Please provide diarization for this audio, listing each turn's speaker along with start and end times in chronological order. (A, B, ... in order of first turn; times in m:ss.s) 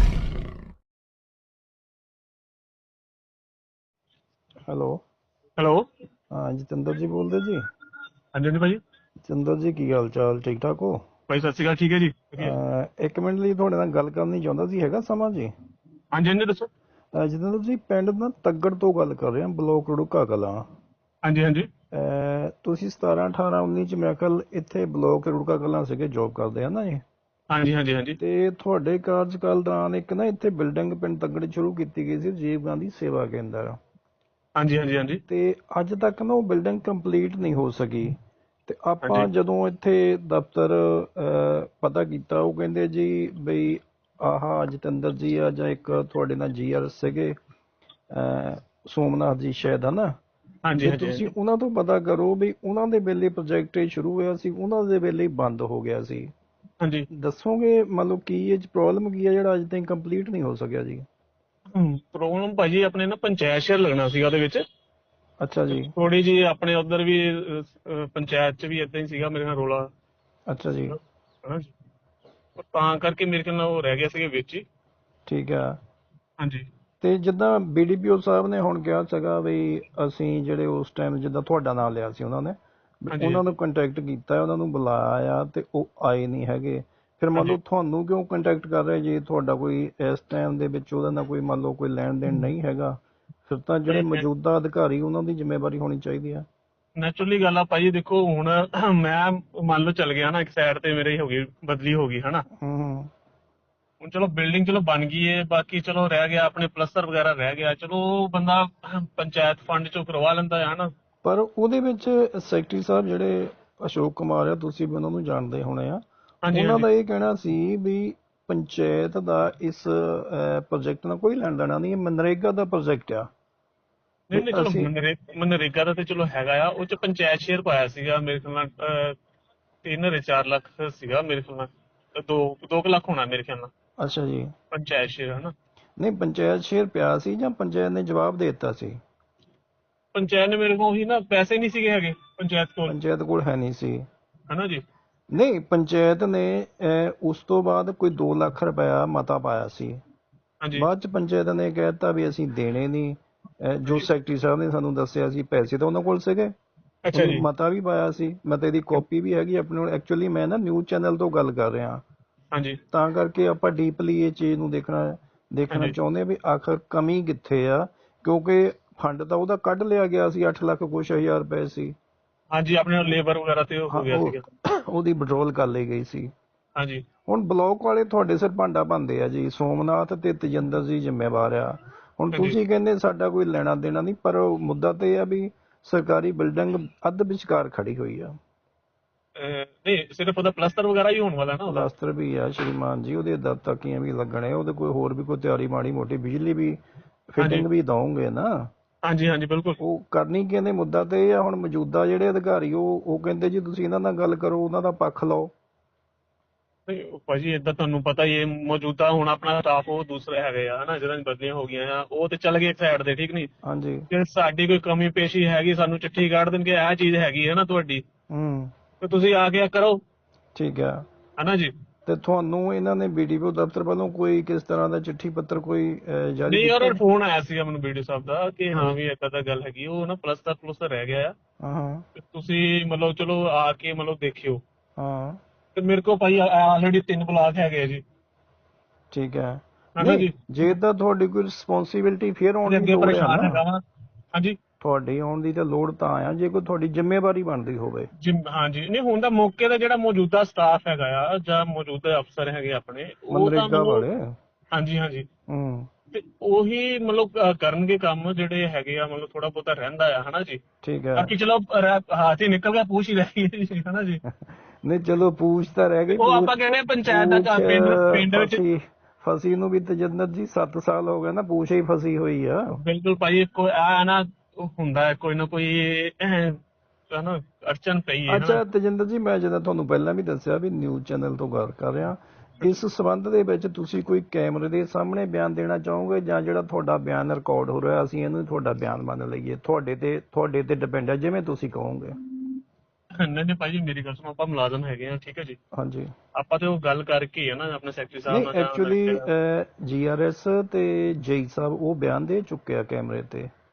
0:04.7-0:05.0 A
0:05.6-0:05.9 B
0:06.3-0:07.7 A
0:08.3-0:08.8 B
0:09.2-0:11.0 A
0:11.3-0:12.5 B
0:12.4-0:15.5 A
0:16.1-0:16.7 B
0:17.1-0:20.6 A
0:21.2-0:21.7 B
0:21.9-0:27.0 A
0:27.5-0:28.2 B
0:28.2-0:33.8 A
0:34.6-0:35.2 B
0:35.3-0:38.2 A
0:38.7-0:47.4 A
0:39.0-0:39.3 B
0:48.1-0:50.2 A
0:50.6-0:51.3 B
0:50.8-0:56.3 A
0:56.8-0:57.1 B
0:57.1-1:01.1 A
1:01.7-1:04.6 B
1:05.4-1:05.9 A
1:05.7-1:09.9 B
1:10.5-1:11.0 A
1:10.9-1:11.7 B
1:12.6-1:14.6 B
1:15.3-1:15.8 A
1:16.4-1:16.7 B
1:17.0-1:36.5 A
1:23.1-1:23.4 B
1:33.9-1:34.2 B
1:37.0-1:42.4 B
1:42.6-1:43.1 A
1:44.0-1:50.9 B
1:51.2-2:03.3 A
1:56.5-1:56.9 B
2:04.3-2:09.2 B
2:04.3-2:04.9 A
2:09.8-2:13.7 B
2:14.0-2:14.5 A
2:14.7-2:15.5 B
2:16.0-2:19.0 A
2:20.1-2:23.0 B
2:22.9-2:24.1 A
2:24.5-2:24.8 B
2:25.3-2:30.0 A
2:30.6-2:30.9 B
2:30.8-2:36.5 A
2:37.1-2:37.5 B
2:37.1-2:42.0 A
2:42.9-2:52.0 A
2:52.5-2:54.4 B
2:53.9-2:56.3 A
2:56.8-2:57.0 B
2:57.3-3:08.4 A
3:02.3-3:02.6 B
3:09.4-3:11.9 B
3:11.7-3:18.7 A
3:17.4-3:17.7 B
3:19.0-3:19.8 B
3:19.8-3:25.5 A
3:26.9-3:33.5 B
3:33.6-3:34.1 A
3:34.1-3:38.0 B
3:38.3-3:38.7 A
3:39.0-3:40.0 B
3:40.6-3:41.0 A
3:41.4-3:41.7 B
3:42.1-3:47.0 A
3:46.5-3:51.3 B
3:51.6-3:52.0 A
3:52.2-3:54.6 B
3:55.0-3:55.4 A
3:55.8-3:58.0 B
3:59.1-4:03.6 A
4:00.0-4:00.3 B
4:02.7-4:03.8 B
4:04.8-4:08.1 A
4:08.2-4:14.0 B
4:13.3-4:14.4 A
4:14.7-4:15.3 B
4:15.5-4:15.9 A
4:16.1-4:20.6 B
4:20.8-4:21.3 A
4:21.2-4:24.2 B
4:24.3-4:26.5 A
4:26.2-4:28.6 B
4:27.1-4:32.8 A
4:32.7-4:36.6 B
4:37.1-4:38.6 B
4:38.3-4:52.2 A
4:53.2-4:55.6 B
4:55.7-4:56.1 A
4:56.4-4:59.2 B
4:58.3-5:03.5 A